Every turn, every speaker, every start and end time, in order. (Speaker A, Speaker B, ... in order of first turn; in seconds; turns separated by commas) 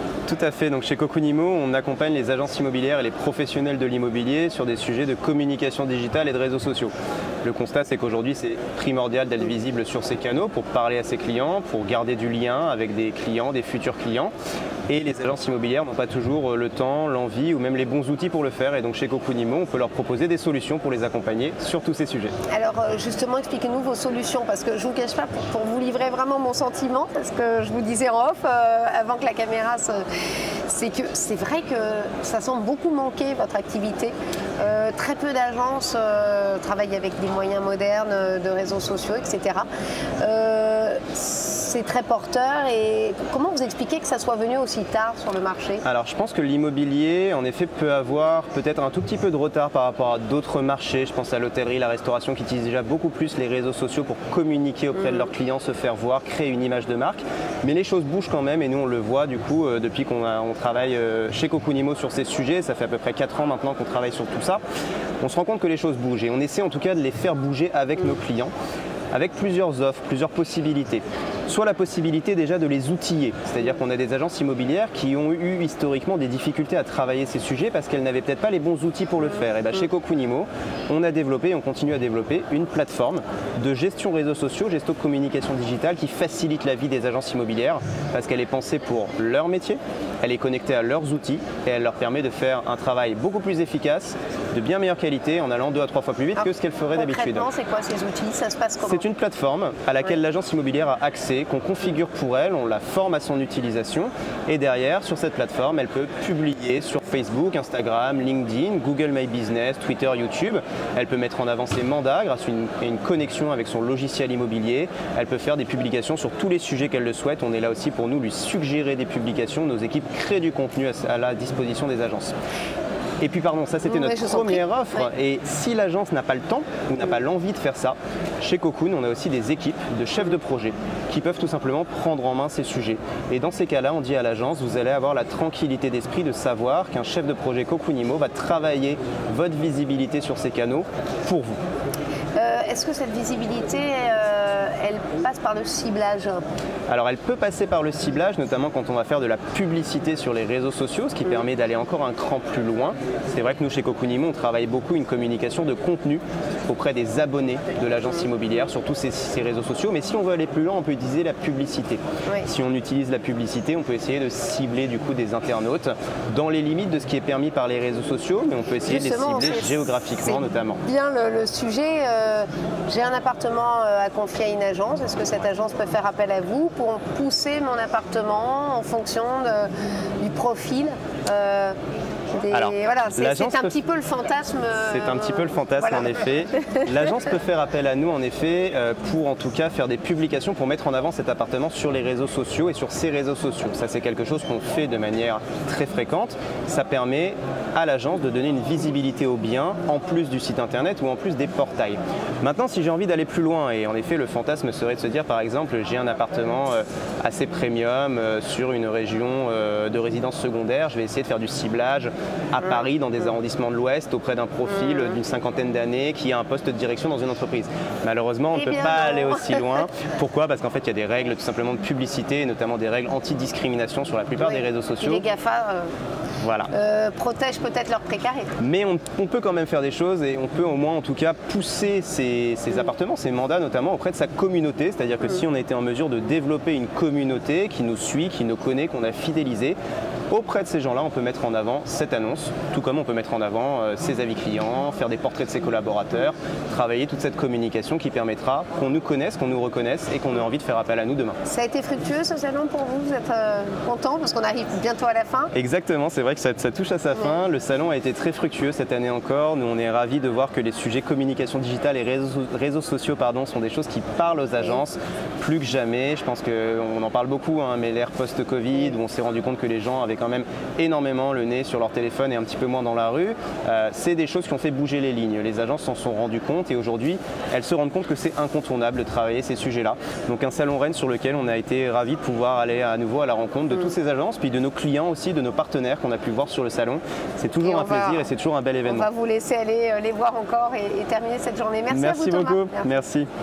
Speaker A: 0.2-14.3, Speaker A: 14.9-22.3, Speaker B: 22.5-30.0, Speaker B: 30.7-39.7, Speaker B: 40.2-45.8, Speaker A: 45.8-64.6, Speaker A: 65.2-68.5, Speaker A: 69.1-97.5, Speaker B: 96.4-99.0, Speaker A: 98.8-122.4, Speaker A: 123.2-141.6, Speaker B: 123.8-124.7, Speaker B: 142.3-146.4, Speaker A: 146.9-170.8, Speaker B: 168.8-181.8, Speaker B: 182.3-186.8, Speaker A: 182.5-183.8, Speaker A: 184.8-225.2, Speaker B: 218.5-219.8, Speaker B: 224.4-225.9, Speaker A: 226.4-226.7, Speaker B: 226.7-228.5, Speaker A: 228.6-239.8, Speaker A: 240.3-251.4, Speaker B: 251.4-255.5, Speaker A: 255.5-289.1, Speaker B: 287.6-288.3, Speaker B: 288.8-292.9, Speaker A: 291.9-293.3